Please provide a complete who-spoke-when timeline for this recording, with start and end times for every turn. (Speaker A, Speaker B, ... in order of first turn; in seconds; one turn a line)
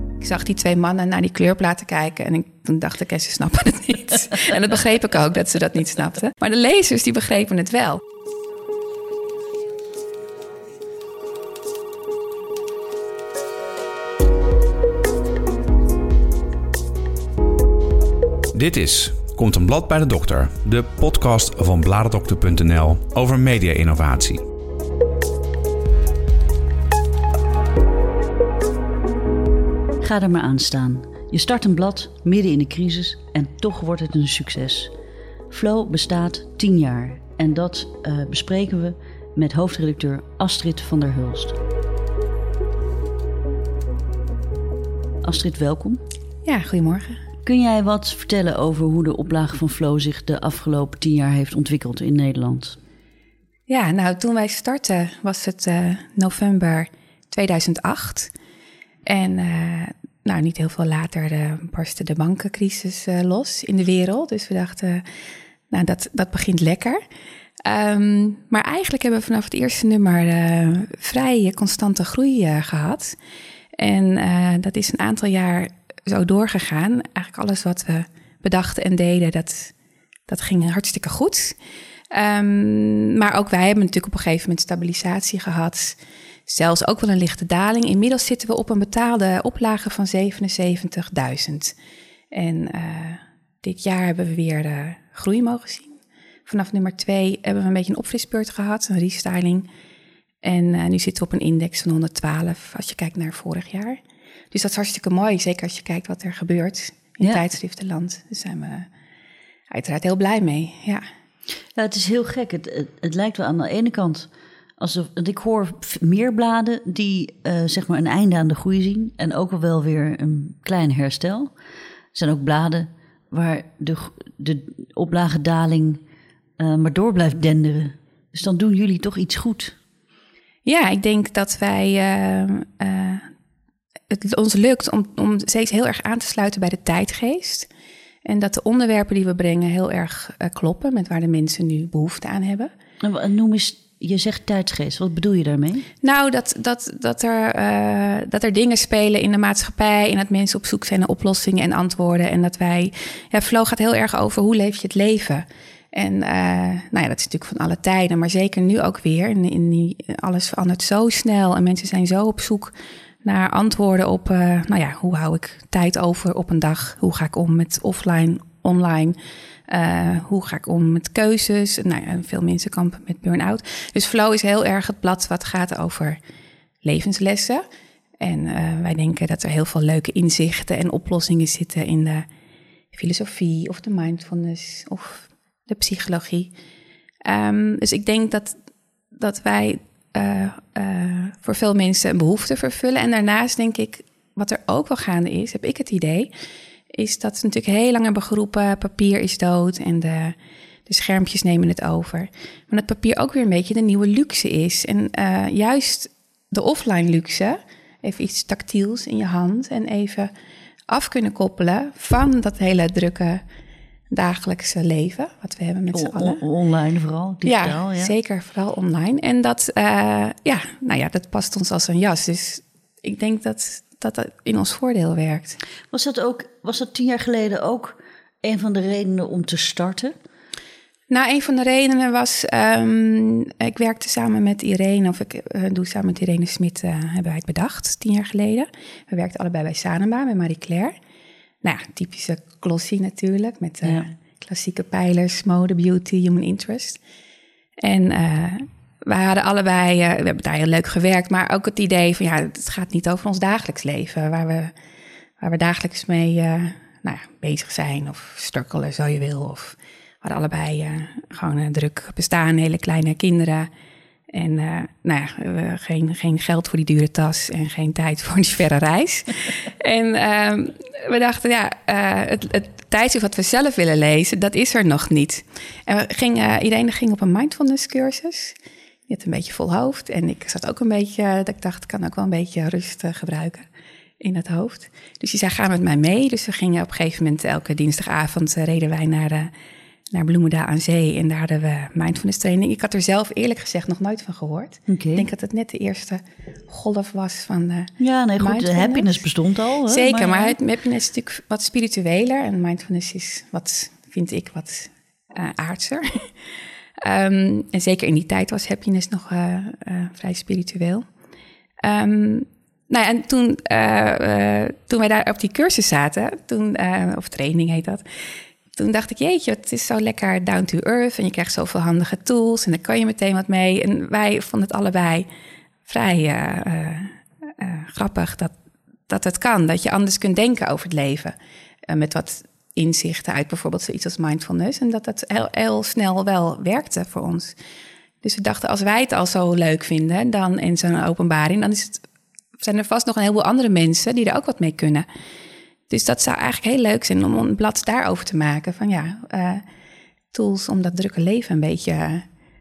Speaker A: 0.2-8.0
Speaker B: 18.5-24.4
Speaker C: 30.0-34.9
Speaker C: 35.5-41.6
Speaker C: 45.2-46.0
Speaker A: 46.5-47.2
Speaker C: 47.5-52.8
Speaker A: 53.7-58.3
Speaker A: 59.1-65.0
Speaker A: 65.7-67.0
Speaker A: 67.7-73.2
Speaker A: 73.8-79.7
Speaker A: 80.3-81.6
Speaker A: 82.1-91.8
Speaker A: 92.3-99.7
Speaker A: 100.4-104.0
Speaker A: 104.5-108.9
Speaker A: 109.7-111.0
Speaker C: 111.8-121.5
Speaker C: 122.1-126.0
Speaker C: 126.6-129.8
Speaker A: 130.7-133.3
Speaker A: 134.1-137.7
Speaker A: 138.2-142.7
Speaker C: 143.0-145.9
Speaker A: 146.0-162.7
Speaker A: 163.2-176.2
Speaker A: 176.8-177.6
Speaker A: 178.2-182.3
Speaker A: 182.9-186.5
Speaker A: 187.3-188.6
Speaker A: 189.1-196.3
Speaker A: 196.9-200.4
Speaker A: 200.9-210.3
Speaker A: 210.9-213.4
Speaker A: 214.1-216.4
Speaker C: 215.9-218.1
Speaker A: 217.4-225.6
Speaker C: 225.9-230.2
Speaker A: 231.1-240.9
Speaker A: 241.6-247.0
Speaker A: 247.8-254.7
Speaker A: 255.4-263.7
Speaker A: 264.3-278.6
Speaker A: 279.1-283.7
Speaker A: 284.2-289.5
Speaker A: 290.1-299.2
Speaker C: 294.9-295.3
Speaker C: 298.0-300.6
Speaker A: 299.9-306.3
Speaker A: 307.0-311.1
Speaker A: 311.8-318.0
Speaker A: 318.7-325.3
Speaker A: 325.9-328.5
Speaker A: 329.1-331.4
Speaker A: 331.9-337.6
Speaker A: 338.2-342.0
Speaker A: 342.6-345.1
Speaker A: 345.9-349.6
Speaker A: 350.3-352.3